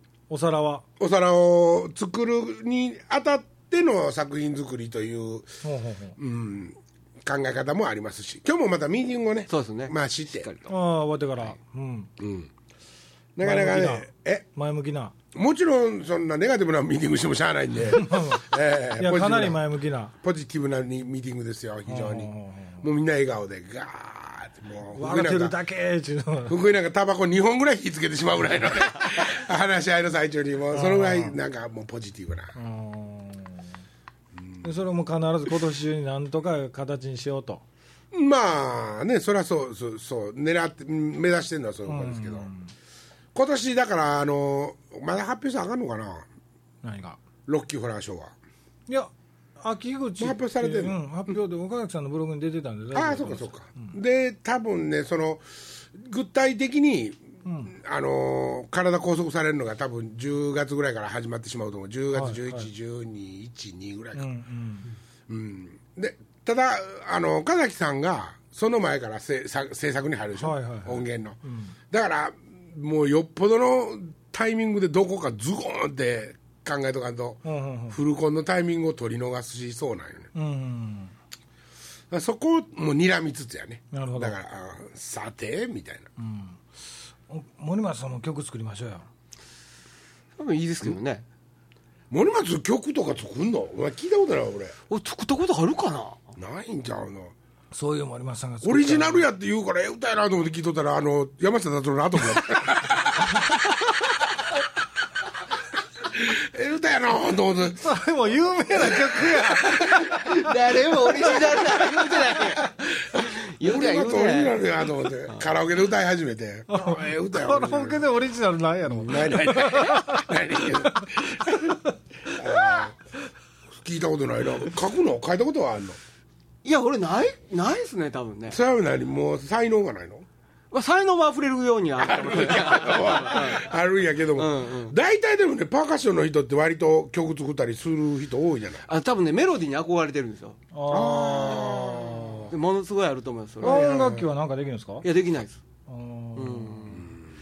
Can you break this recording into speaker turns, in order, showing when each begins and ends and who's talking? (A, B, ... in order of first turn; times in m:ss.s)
0:00.3-0:00.8 A
0:01.0-0:05.5 B
0:05.6-0:06.2 A
0:06.2-0:10.5 B
0:09.5-0:10.7 C
0:10.7-0:12.1 A
0:12.2-0:12.5 B
0:13.4-0:14.4 B
0:13.4-0:15.1 A
0:15.3-0:19.6 B
0:17.9-0:18.4 A
0:19.0-0:20.1 A
0:20.2-0:22.3 B
0:21.9-0:22.8 A
0:22.8-0:25.6 B
0:24.9-0:26.6 A
0:26.5-0:32.5 B
0:30.7-0:31.4 A
0:32.5-0:33.7 A
0:34.3-0:34.7 B
0:34.6-0:37.6 A
0:38.1-0:42.5 B
0:41.9-0:42.7 A
0:43.3-0:46.3 B
0:46.8-0:47.2 A
0:47.5-0:48.3 B
0:48.9-0:53.9 A
0:50.2-0:51.0 B
0:52.9-1:04.3 B
0:57.4-0:57.7 A
1:02.1-1:02.7 A
1:04.1-1:04.9 A
1:05.3-1:11.4 B
1:10.4-1:11.7 A
1:11.9-1:20.3 B
1:17.4-1:18.0 A
1:20.3-1:21.1 A
1:22.1-1:26.1 B
1:23.9-1:24.4 A
1:26.2-1:26.6 A
1:27.3-1:29.1 A
1:30.4-1:31.2 C
1:32.1-1:34.7 B
1:34.9-1:36.2 C
1:36.4-1:37.3 B
1:37.7-1:39.2 A
1:38.6-1:44.5 B
1:46.0-1:47.8 B
1:47.7-1:50.2 A
1:48.8-1:50.5 B
1:49.9-1:54.6 C
1:51.1-1:51.8 B
1:51.2-1:52.9 A
1:53.0-1:58.0 B
1:56.7-2:02.9 A
1:59.0-1:59.8 C
1:59.0-2:01.7 B
2:02.3-2:02.9 B
2:03.8-2:06.0 B
2:06.6-2:08.6 C
2:08.5-2:10.3 B
2:10.7-2:13.7 C
2:12.0-2:18.8 B
2:14.4-2:15.0 C
2:18.8-2:20.6 C
2:20.7-2:22.5 A
2:20.9-2:22.5 B
2:21.2-2:23.9 C
2:23.6-2:24.2 B
2:23.6-2:25.0 A
2:25.0-2:25.6 C
2:25.9-2:27.0 A
2:26.4-2:27.2 C